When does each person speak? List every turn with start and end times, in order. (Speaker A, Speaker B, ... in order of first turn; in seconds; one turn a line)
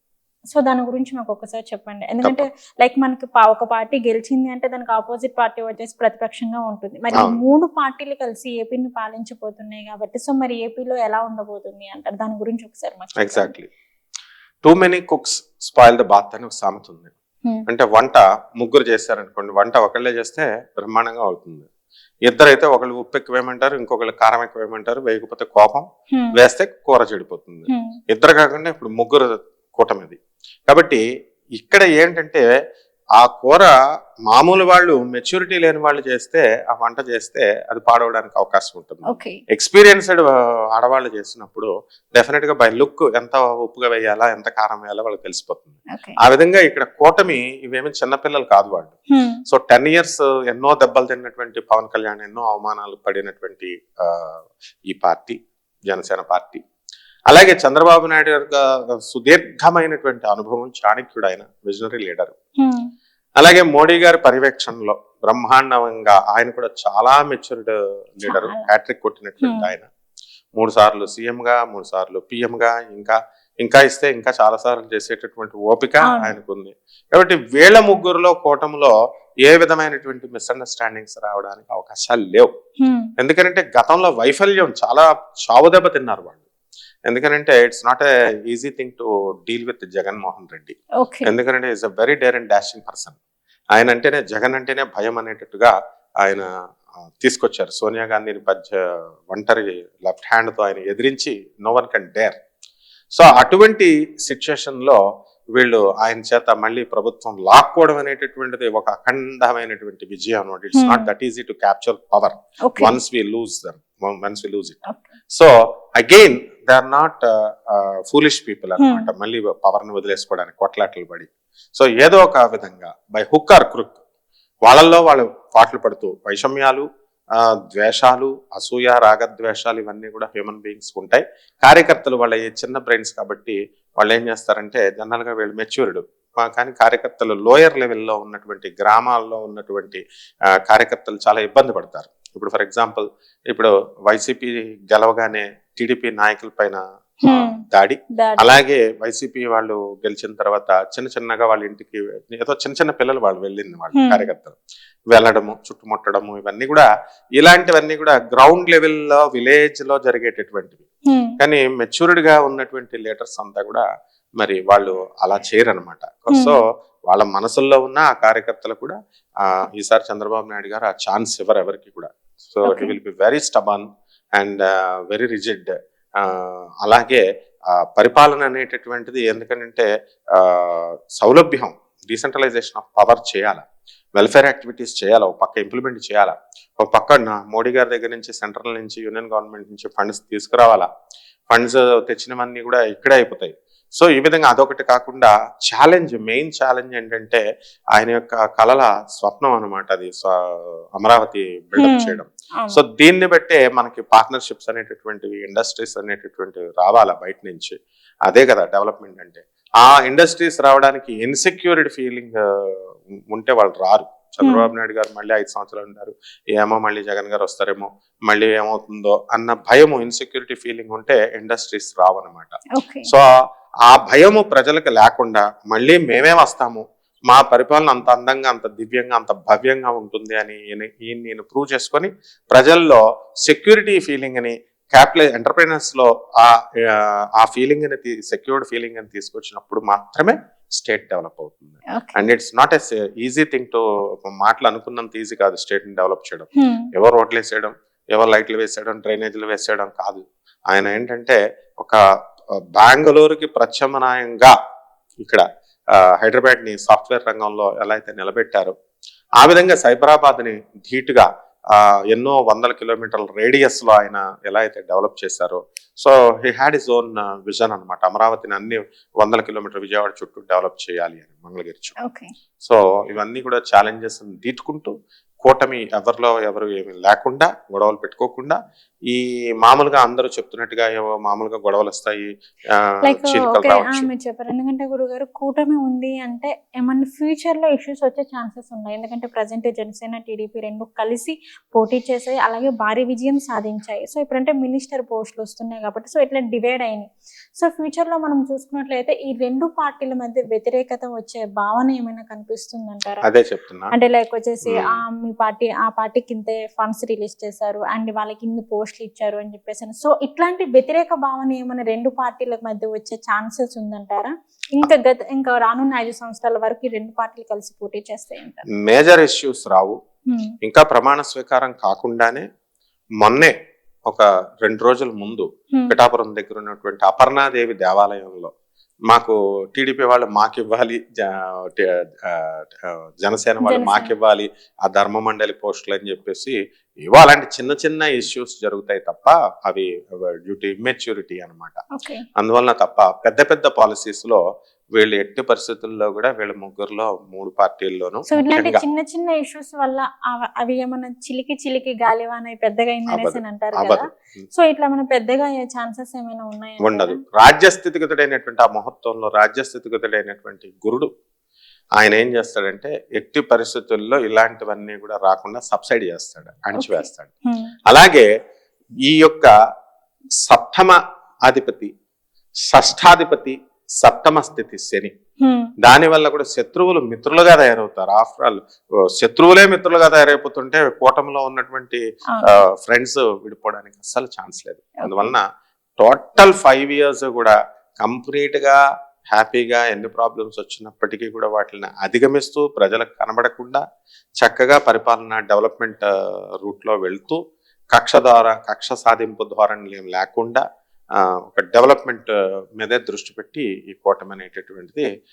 Speaker A: 0.5-13.5
Speaker B: 13.2-13.7
Speaker B: 14.6-17.1
Speaker B: 17.7-21.7
Speaker B: 22.2-31.0
Speaker A: 27.7-28.0
Speaker B: 31.6-32.5
Speaker B: 33.2-33.7
Speaker B: 34.3-49.0
Speaker A: 39.0-39.4
Speaker A: 45.9-46.2
Speaker A: 49.1-49.4
Speaker B: 49.5-55.4
Speaker B: 55.9-56.6
Speaker B: 57.3-62.3
Speaker A: 62.6-62.9
Speaker B: 63.4-69.8
Speaker A: 68.3-68.7
Speaker A: 69.4-69.7
Speaker B: 70.6-78.9
Speaker A: 76.1-76.3
Speaker B: 79.4-82.5
Speaker A: 82.8-83.1
Speaker B: 83.2-86.4
Speaker B: 87.1-93.2
Speaker A: 91.0-91.3
Speaker B: 93.7-96.5
Speaker B: 97.2-102.4
Speaker B: 103.1-105.0
Speaker B: 105.5-114.8
Speaker A: 110.8-111.1
Speaker A: 112.7-112.9
Speaker B: 115.3-124.0
Speaker A: 118.8-119.1
Speaker B: 124.7-126.8
Speaker B: 127.4-140.0
Speaker B: 140.7-154.6
Speaker A: 147.2-147.6
Speaker A: 148.1-148.4
Speaker A: 153.9-154.3
Speaker B: 155.1-160.8
Speaker A: 161.1-161.3
Speaker B: 161.4-163.8
Speaker B: 164.4-183.6
Speaker A: 166.3-166.6
Speaker A: 172.7-172.9
Speaker B: 184.2-190.9
Speaker B: 191.5-223.2
Speaker A: 201.8-202.8
Speaker A: 214.4-214.7
Speaker A: 222.7-223.1
Speaker B: 223.9-252.0
Speaker A: 241.9-242.2
Speaker A: 246.6-246.9
Speaker B: 252.7-254.5
Speaker B: 255.2-258.7
Speaker B: 259.4-271.9
Speaker A: 272.0-272.3
Speaker B: 272.6-284.1
Speaker A: 283.0-297.1
Speaker A: 297.6-303.2
Speaker B: 303.2-303.9
Speaker A: 303.9-318.6
Speaker B: 318.8-320.0
Speaker A: 320.3-320.5
Speaker B: 320.6-322.4
Speaker B: 323.2-323.5
Speaker B: 324.1-328.5
Speaker B: 329.1-341.8
Speaker A: 333.6-334.1
Speaker A: 341.9-342.2
Speaker B: 342.4-344.4
Speaker B: 344.9-348.8
Speaker A: 348.3-357.2
Speaker B: 353.1-354.1
Speaker B: 356.8-361.1
Speaker B: 362.0-367.3
Speaker A: 366.8-367.7
Speaker B: 367.9-368.3
Speaker B: 369.0-369.5
Speaker B: 370.4-371.9
Speaker B: 372.7-375.1
Speaker A: 375.4-375.7
Speaker B: 375.8-385.4
Speaker A: 382.3-382.6
Speaker A: 385.0-385.3
Speaker B: 386.0-388.8
Speaker B: 389.3-393.8
Speaker B: 394.4-396.1
Speaker B: 396.6-397.4
Speaker B: 397.9-400.6
Speaker B: 401.2-405.1